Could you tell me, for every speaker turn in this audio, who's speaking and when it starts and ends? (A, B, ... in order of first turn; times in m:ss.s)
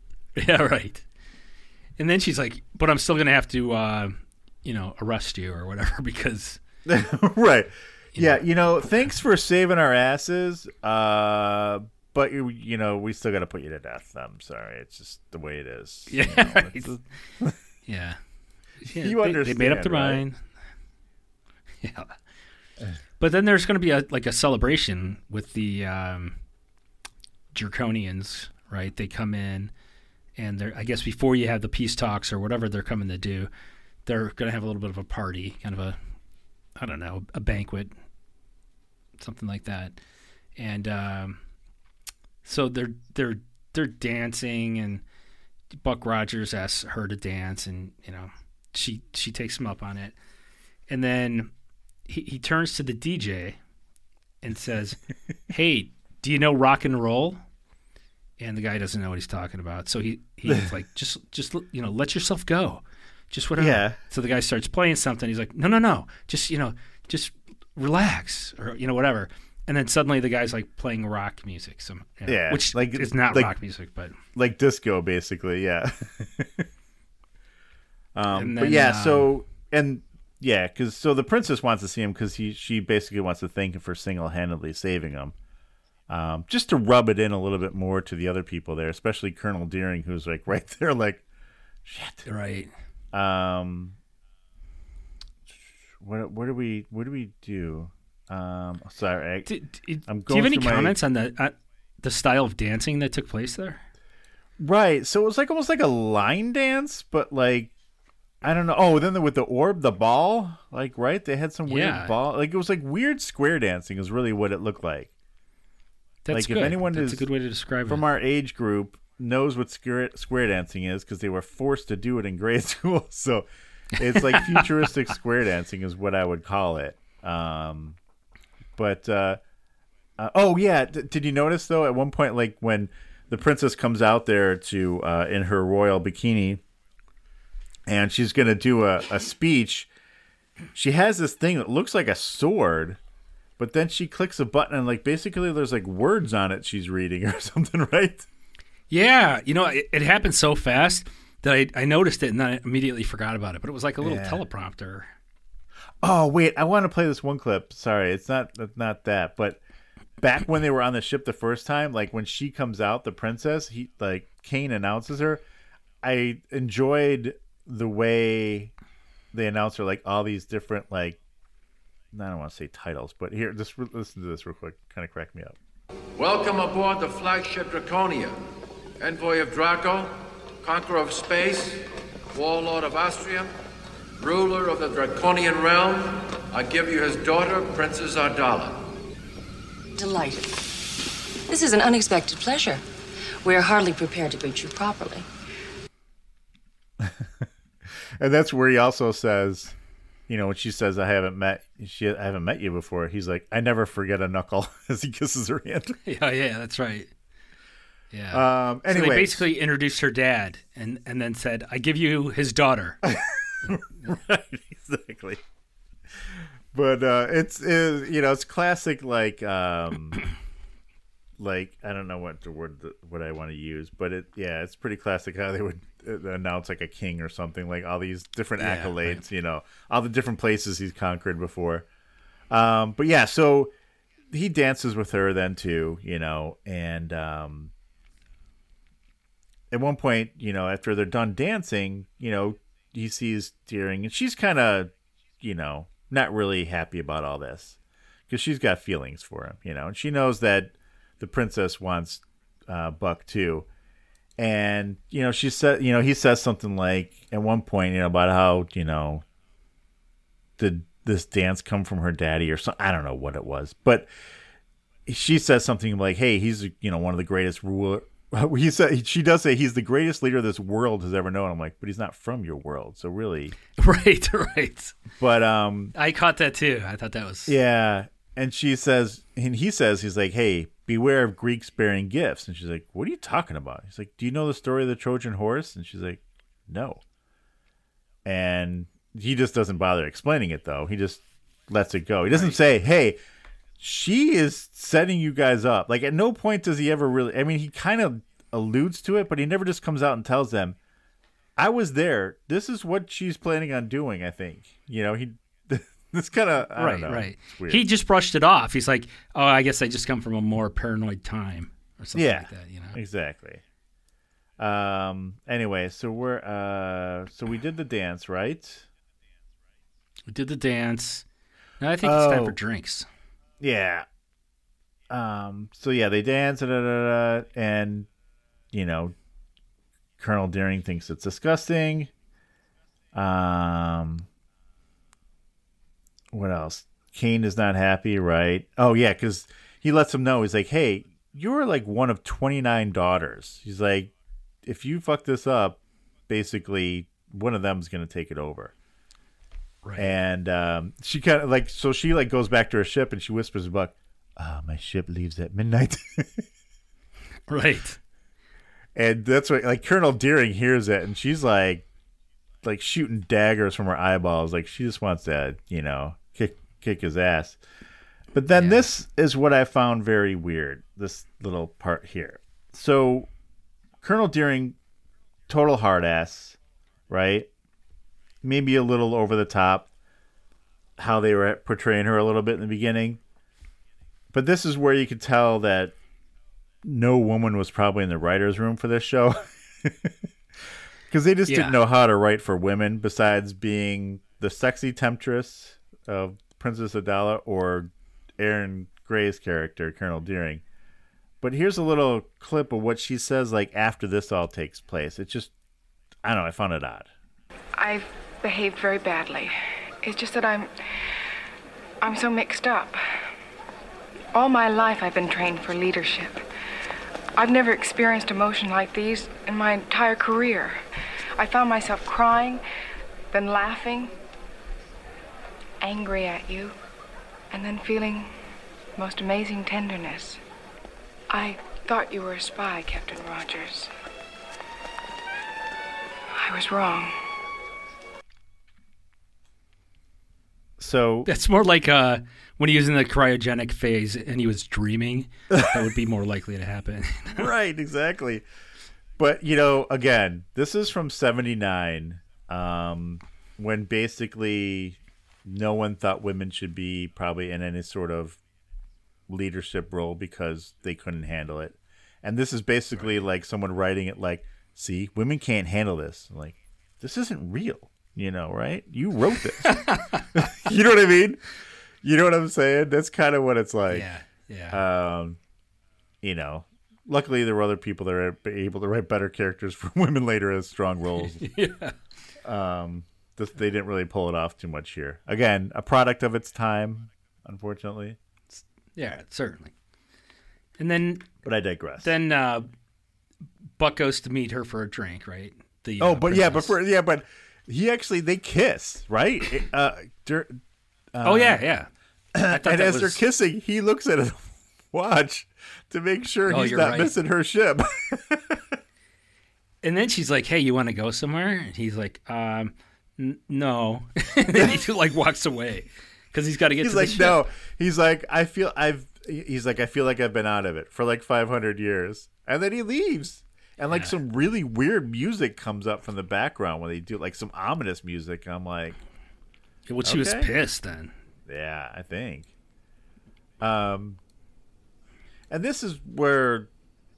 0:00.4-0:01.0 A
0:02.0-0:06.6 A
0:06.8-0:17.6 B
0:08.1-0:08.4 A
0:16.1-0:16.9 A
0:17.8-0:18.2 A
0:18.8-0:20.4 A
0:18.8-0:20.2 B
0:21.8-0:22.2 A
0:23.2-0:26.4 A
0:27.5-0:29.7 A
0:30.4-0:33.5 A
0:34.0-0:36.0 A
0:36.8-0:37.9 A
0:39.2-0:40.0 A
0:40.6-0:41.4 A
0:42.4-0:45.0 A
0:45.8-0:50.1 A
0:50.9-0:51.5 A
0:52.1-0:53.6 A
0:54.4-0:55.0 A
0:55.5-0:57.4 A
0:58.4-1:14.2 A
1:03.6-1:04.0 B
1:12.2-1:13.5 B
1:14.3-1:16.7 B
1:18.1-1:25.3 B
1:18.3-1:19.3 A
1:26.1-1:31.2 B
1:31.8-1:32.2 B
1:32.2-1:32.7 A
1:33.1-1:34.0 B
1:36.0-1:39.5 B
1:39.5-1:43.8 A
1:40.0-1:41.0 B
1:44.6-1:47.7 B
1:48.4-1:55.1 B
1:51.7-1:52.1 A
1:56.2-1:58.0 A
1:56.3-1:57.2 B
1:57.9-2:08.0 B
2:04.1-2:04.6 A
2:08.8-2:09.4 B
2:10.2-2:16.6 B
2:17.9-2:19.9 B
2:20.7-2:23.0 B
2:23.6-2:28.2 B
2:28.9-2:35.1 A
2:34.0-2:34.4 B
2:36.0-2:39.6 B
2:40.2-2:45.4 B
2:46.0-2:48.7 B
2:49.3-2:51.2 B
2:52.1-2:55.6 B
2:56.2-2:58.4 C
2:59.0-3:03.5 C
3:04.2-3:08.8 C
3:10.0-3:10.6 D
3:11.5-3:12.8 D
3:13.4-3:15.2 D
3:17.0-3:17.4 B
3:18.2-3:19.7 B
3:20.3-3:26.0 B
3:26.0-3:27.1 A
3:28.1-3:33.0 A
3:28.3-3:29.5 B
3:33.0-3:35.4 B
3:36.7-3:40.2 B
3:41.4-3:51.8 B
3:48.6-3:49.2 A
3:52.5-3:53.7 B
3:54.3-3:57.7 B
3:59.7-4:07.8 B
4:08.3-4:13.7 B
4:14.4-4:19.2 B
4:20.6-4:24.1 B
4:25.0-4:33.6 B
4:33.8-4:35.0 A
4:35.2-4:35.9 B
4:35.9-4:37.6 A
4:37.5-4:47.0 B
4:48.2-4:53.2 B
4:52.3-4:52.6 A
4:53.8-5:00.8 B
5:01.6-5:07.8 B
5:06.8-5:13.0 A
5:12.1-5:13.6 B
5:14.6-5:18.9 B
5:20.3-5:21.2 A
5:21.8-5:23.1 A
5:22.0-5:22.6 B
5:23.6-5:24.0 B
5:25.1-5:28.1 B
5:28.7-5:29.1 B
5:30.2-5:32.1 B
5:33.1-5:34.3 B
5:36.3-5:44.1 B
5:44.6-5:48.7 B
5:49.8-5:50.1 A
5:50.0-5:56.5 B
5:57.5-5:58.0 A
5:58.9-6:01.8 B
6:02.6-6:07.6 B
6:08.3-6:13.3 B
6:08.5-6:08.8 A
6:14.0-6:14.8 B
6:15.5-6:16.6 B
6:17.1-6:17.5 B
6:18.4-6:19.9 B
6:21.0-6:23.2 B
6:24.3-6:25.9 B
6:26.8-6:30.1 B
6:31.1-6:40.6 B
6:31.5-6:31.8 A
6:41.4-6:45.5 B
6:46.2-6:47.1 B
6:47.8-6:50.7 E
6:52.0-6:53.0 E
6:54.3-6:56.4 E
6:57.4-7:00.8 E
7:01.4-7:02.6 E
7:03.3-7:04.1 E
7:05.8-7:06.7 E
7:07.5-7:08.3 E
7:09.0-7:10.4 E
7:11.3-7:13.9 E
7:16.3-7:17.2 E
7:20.8-7:21.3 B
7:21.2-7:27.5 A
7:25.5-7:25.8 B
7:27.3-7:28.4 B
7:29.2-7:38.4 B
7:39.3-7:51.4 B
7:42.9-7:43.2 A
7:49.6-7:50.2 A
7:52.0-7:54.1 B
7:53.9-7:54.8 A
7:54.7-7:55.4 B
7:56.2-8:01.6 B
8:01.4-8:01.9 A
8:02.4-8:08.2 B
8:08.5-8:09.7 A
8:10.8-8:11.3 A
8:11.4-8:12.1 B
8:12.0-8:12.7 A
8:13.8-8:16.7 A
8:16.0-8:20.6 B
8:21.1-8:21.6 B
8:21.2-8:21.9 A
8:22.3-8:28.8 B
8:22.5-8:23.2 A
8:26.4-8:27.2 A
8:29.8-8:37.4 A
8:34.5-8:34.8 B
8:36.8-8:49.0 B
8:49.9-8:51.1 A
8:50.0-8:50.5 B
8:51.5-8:52.5 B
8:53.6-8:54.2 B
8:55.5-8:56.7 B